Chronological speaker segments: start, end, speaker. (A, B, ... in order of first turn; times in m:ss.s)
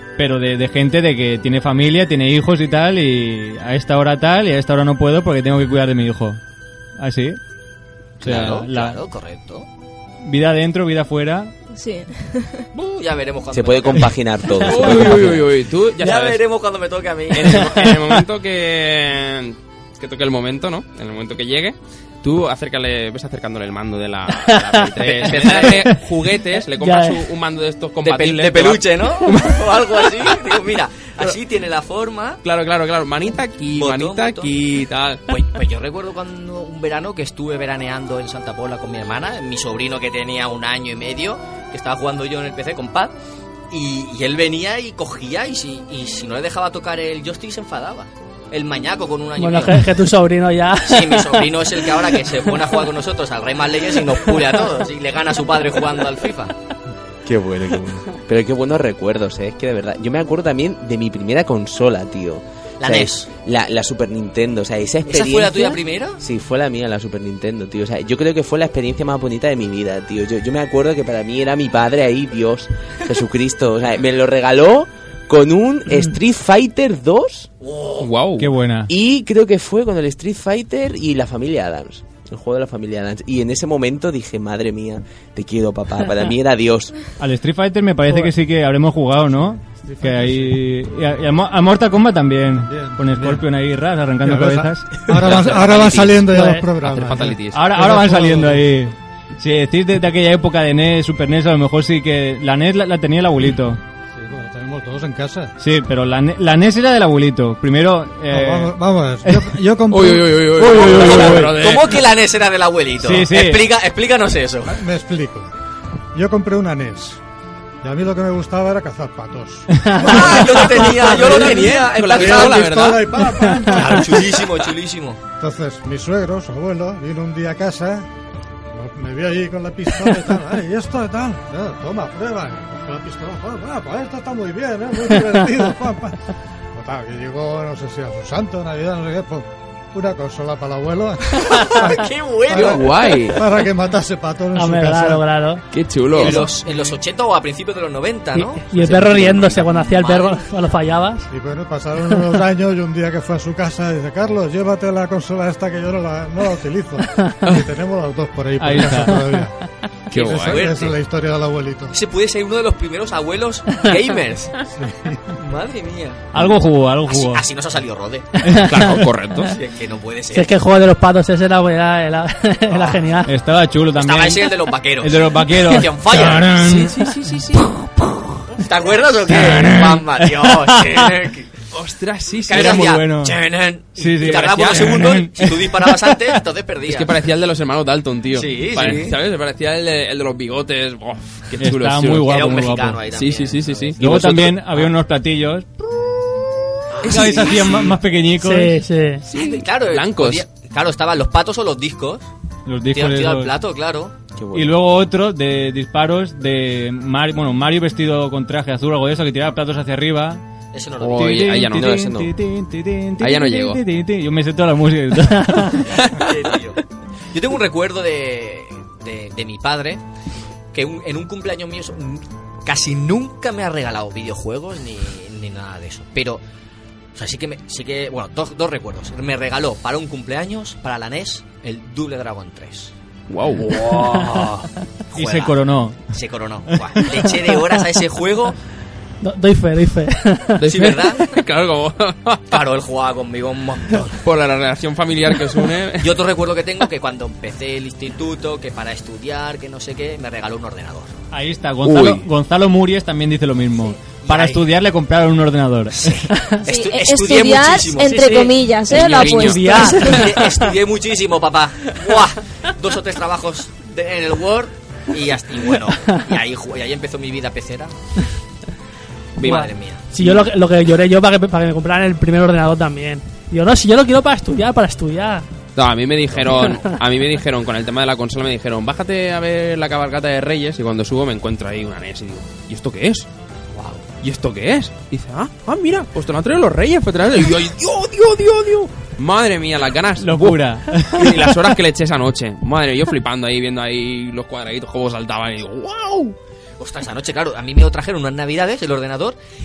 0:00.2-0:06.4 A
0:07.0-0:07.4 A
0:08.2-0:09.0 A
0:08.2-0:09.7 B
0:10.2-0:11.5 A
0:11.8-0:12.7 C
0:12.8-0:15.4 B
0:13.5-0:15.5 D
0:14.6-0:16.4 E
0:16.0-0:17.9 B
0:17.3-0:30.5 E
0:24.3-0:24.9 F
0:25.0-0:25.9 B
0:26.7-0:27.2 F
0:28.0-0:32.4 B
0:32.4-0:35.2 E
0:33.7-0:34.5 B
0:35.3-0:43.1 B
0:43.7-0:50.0 B
0:49.4-0:52.8 F
0:50.8-0:56.5 B
0:54.3-0:54.6 F
0:57.2-1:17.5 D
1:02.8-1:03.3 B
1:05.1-1:06.2 B
1:17.6-1:18.1 B
1:18.0-1:18.5 E
1:18.4-1:18.9 A
1:18.9-1:27.0 D
1:27.2-1:35.2 A
1:29.8-1:30.6 G
1:32.6-1:33.4 G
1:34.2-1:38.7 G
1:35.1-1:37.6 E
1:37.5-1:43.8 A
1:44.2-1:45.5 G
1:45.6-1:49.4 A
1:48.3-1:50.6 G
1:49.9-1:52.0 E
1:50.6-1:51.5 A
1:50.7-1:54.8 B
1:53.0-1:53.7 A
1:54.7-1:55.5 G
1:56.1-1:57.2 G
1:57.8-2:04.5 G
2:00.0-2:02.8 B
2:00.4-2:03.2 E
2:03.5-2:03.8 F
2:03.7-2:05.2 B
2:05.4-2:08.1 G
2:08.7-2:16.2 G
2:16.8-2:25.2 G
2:21.4-2:23.2 B
2:22.5-2:23.4 E
2:24.5-2:25.6 F
2:25.7-2:26.5 E
2:26.1-2:30.5 B
2:26.2-2:27.0 G
2:28.3-2:31.3 F
2:28.8-2:29.6 E
2:31.3-2:39.6 G
2:38.6-2:39.4 A
2:40.1-2:42.0 G
2:40.1-2:40.6 E
2:40.4-2:41.0 B
2:41.9-2:44.6 B
2:44.7-2:45.4 G
2:45.4-2:46.2 B
2:46.3-2:47.4 A
2:47.1-2:48.4 B
2:48.4-2:49.0 A
2:48.6-2:49.6 E
2:49.5-2:50.5 B
2:50.3-2:53.3 F
2:52.7-2:53.0 B
2:53.3-2:57.1 A
2:54.0-2:56.6 B
2:56.6-2:57.7 E
2:58.6-3:01.5 B
2:59.3-3:01.1 A
3:01.7-3:02.9 E
3:02.5-3:07.1 B
3:02.5-3:03.4 A
3:04.0-3:06.2 A
3:04.2-3:05.2 E
3:06.9-3:12.4 E
3:08.3-3:09.2 B
3:11.6-3:13.0 A
3:12.2-3:14.0 B
3:13.1-3:14.5 E
3:14.0-3:18.8 A
3:14.0-3:14.5 D
3:17.0-3:17.9 B
3:17.0-3:17.9 E
3:18.4-3:19.2 F
3:19.3-3:20.4 E
3:19.3-3:22.2 B
3:22.7-3:23.5 A
3:22.9-3:24.2 B
3:24.4-3:24.8 D
3:24.5-3:30.4 A
3:30.7-3:31.5 B
3:31.0-3:31.9 E
3:31.1-3:35.9 A
3:31.7-3:32.3 D
3:33.2-3:33.8 E
3:35.8-3:36.8 B
3:37.3-3:40.0 B
3:40.7-3:46.4 B
3:47.2-3:52.9 B
3:53.3-3:54.0 E
3:53.6-3:55.6 B
3:55.1-3:56.1 A
3:56.1-3:58.6 B
3:56.7-3:57.5 A
3:59.2-4:01.0 F
4:00.6-4:02.6 E
4:00.7-4:01.4 B
4:02.5-4:04.2 B
4:04.2-4:06.1 E
4:06.0-4:11.1 B
4:11.3-4:16.3 A
4:11.8-4:12.2 E
4:14.0-4:14.6 B
4:16.0-4:18.2 B
4:16.3-4:16.7 F
4:16.7-4:20.2 C
4:18.0-4:18.6 F
4:18.9-4:19.6 E
4:19.1-4:20.7 F
4:19.6-4:27.9 B
4:25.9-4:26.2 F
4:29.4-4:30.0 B
4:29.4-4:35.5 F
4:30.2-4:30.5 E
4:35.8-4:43.3 E
4:36.3-4:36.8 B
4:36.6-4:37.0 F
4:43.7-4:44.0 B
4:44.2-4:56.4 E
4:50.2-4:51.6 A
4:56.8-4:59.4 B